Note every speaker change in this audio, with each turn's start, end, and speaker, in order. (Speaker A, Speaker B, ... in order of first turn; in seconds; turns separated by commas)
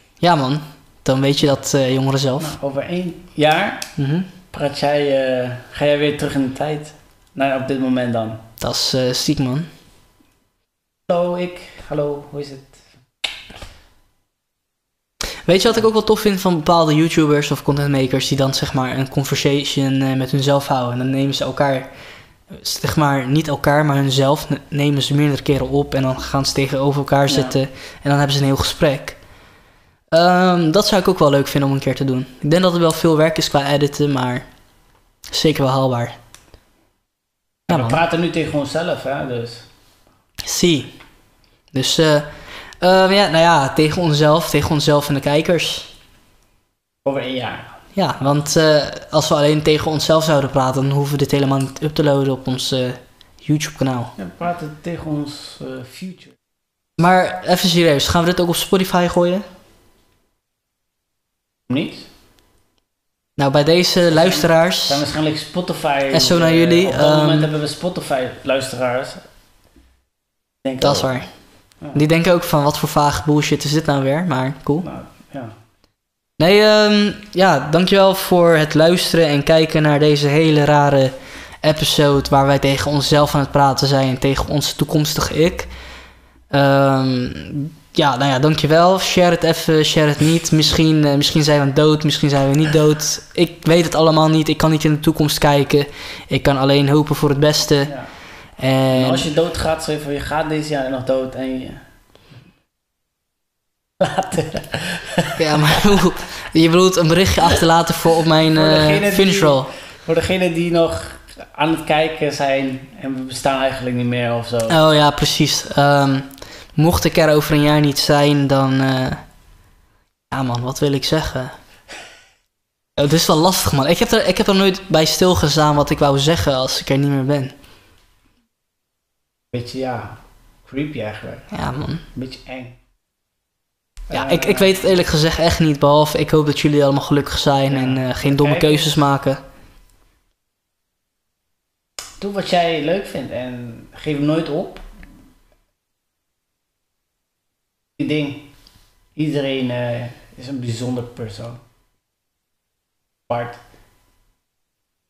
Speaker A: 0.2-2.5, Speaker B: 2.4-3.9, Speaker A: 4.0-4.3, Speaker B: 4.5-8.4, Speaker A: 8.6-9.7, Speaker B: 11.1-12.8, Speaker A: 15.5-21.9, Speaker A: 22.5-29.2, Speaker B: 27.3-27.6, Speaker A: 30.1-34.5, Speaker A: 35.3-36.1, Speaker A: 37.7-38.0, Speaker B: 37.7-39.6, Speaker A: 40.5-40.9, Speaker A: 41.7-42.3, Speaker A: 42.8-45.9, Speaker B: 47.0-47.8, Speaker A: 48.0-54.1, Speaker B: 54.2-56.4, Speaker A: 57.0-59.5, Speaker B: 61.7-62.1, Speaker A: 63.4-65.0, Speaker B: 64.1-69.2, Speaker A: 66.1-67.5, Speaker B: 70.6-71.2, Speaker A: 70.8-71.3, Speaker A: 71.9-74.9, Speaker B: 74.8-75.5, Speaker A: 76.4-85.7, Speaker A: 86.5-97.9, Speaker B: 97.8-98.1, Speaker A: 98.6-99.3, Speaker B: 98.9-101.8, Speaker B: 104.0-106.0, Speaker A: 105.4-109.7, Speaker B: 108.5-114.8, Speaker A: 114.7-119.2, Speaker A: 120.3-121.5, Speaker A: 123.0-127.5, Speaker B: 129.5-131.5, Speaker A: 131.5-132.0, Speaker B: 132.1-132.8, Speaker B: 134.1-134.8, Speaker A: 134.1-139.4, Speaker B: 137.7-139.0, Speaker B: 142.2-144.8, Speaker B: 148.0-148.5, Speaker B: 149.2-151.6, Speaker B: 153.3-153.6